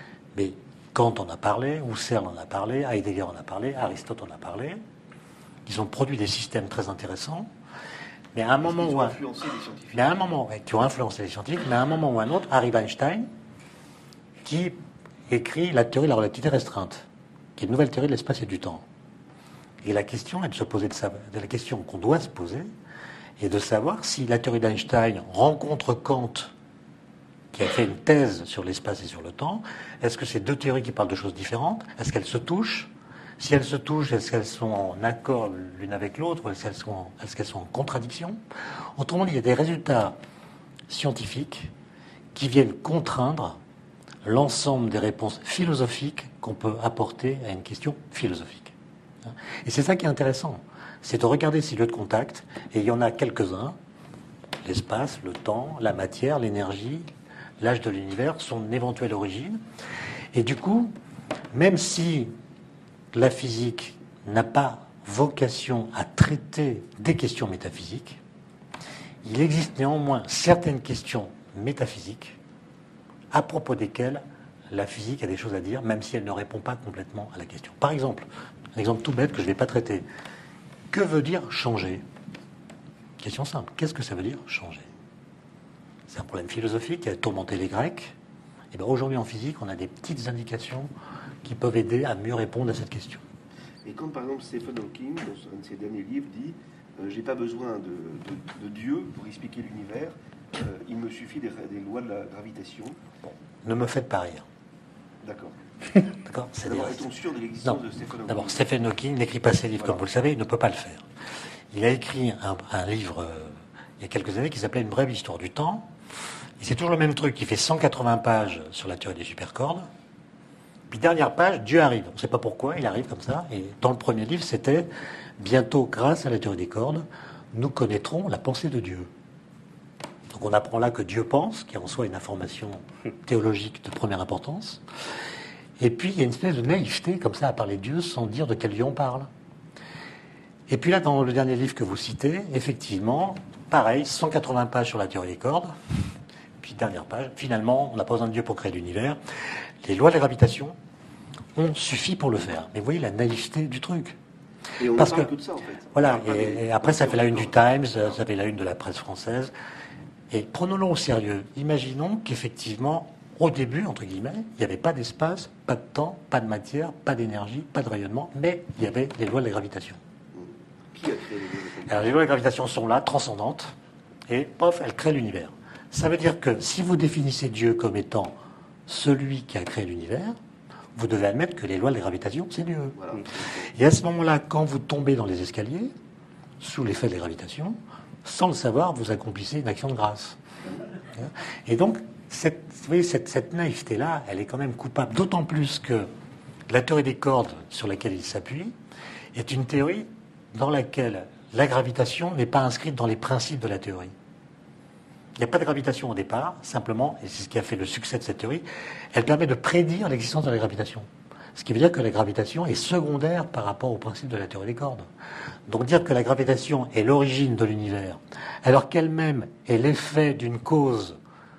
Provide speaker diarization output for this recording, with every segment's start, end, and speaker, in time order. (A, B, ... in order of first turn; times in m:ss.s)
0:00.3-0:04.8 A
0:05.6-0:07.5 A
0:08.3-0:09.2 A
0:08.6-0:10.1 B
0:09.9-0:13.3 A
0:14.4-0:14.8 A
0:15.3-0:18.8 A
0:19.8-0:22.7 A
0:23.4-0:26.5 A
0:27.5-0:38.4 A
0:39.0-0:40.2 A
0:40.9-0:41.7 A
0:42.3-0:43.6 A
0:44.2-0:53.8 A
0:54.6-0:57.1 A
0:57.6-0:59.6 A
1:00.3-1:00.9 A
1:01.5-1:02.3 A
1:03.1-1:08.2 A
1:09.2-1:12.4 A
1:13.3-1:20.0 A
1:20.9-1:22.0 A
1:23.2-1:24.9 A
1:26.1-1:28.2 A
1:28.7-1:30.9 A
1:31.4-1:33.2 A
1:33.8-1:43.0 B
1:43.2-1:44.4 A
1:45.2-1:45.6 B
1:46.2-1:47.0 A
1:46.6-1:48.6 B
1:47.6-1:51.0 A
1:51.7-1:55.9 A
1:56.6-1:59.9 A
2:00.9-2:04.9 A
2:05.4-2:09.1 A
2:10.3-2:14.8 A
2:15.8-2:19.3 A
2:20.7-2:25.7 A
2:26.6-2:29.2 A
2:29.8-2:30.8 A
2:31.5-2:34.2 A
2:34.8-2:37.5 B
2:34.8-2:35.3 A
2:35.9-2:39.5 A
2:40.3-2:50.0 A
2:50.3-2:52.1 B
2:51.9-2:53.8 A
2:54.3-3:00.4 A
3:00.9-3:03.0 A
3:03.0-3:03.3 B
3:03.6-3:05.9 A
3:06.6-3:10.4 A
3:11.1-3:16.1 A
3:16.7-3:18.8 A
3:19.3-3:24.1 A
3:25.4-3:35.1 A
3:35.7-3:41.2 A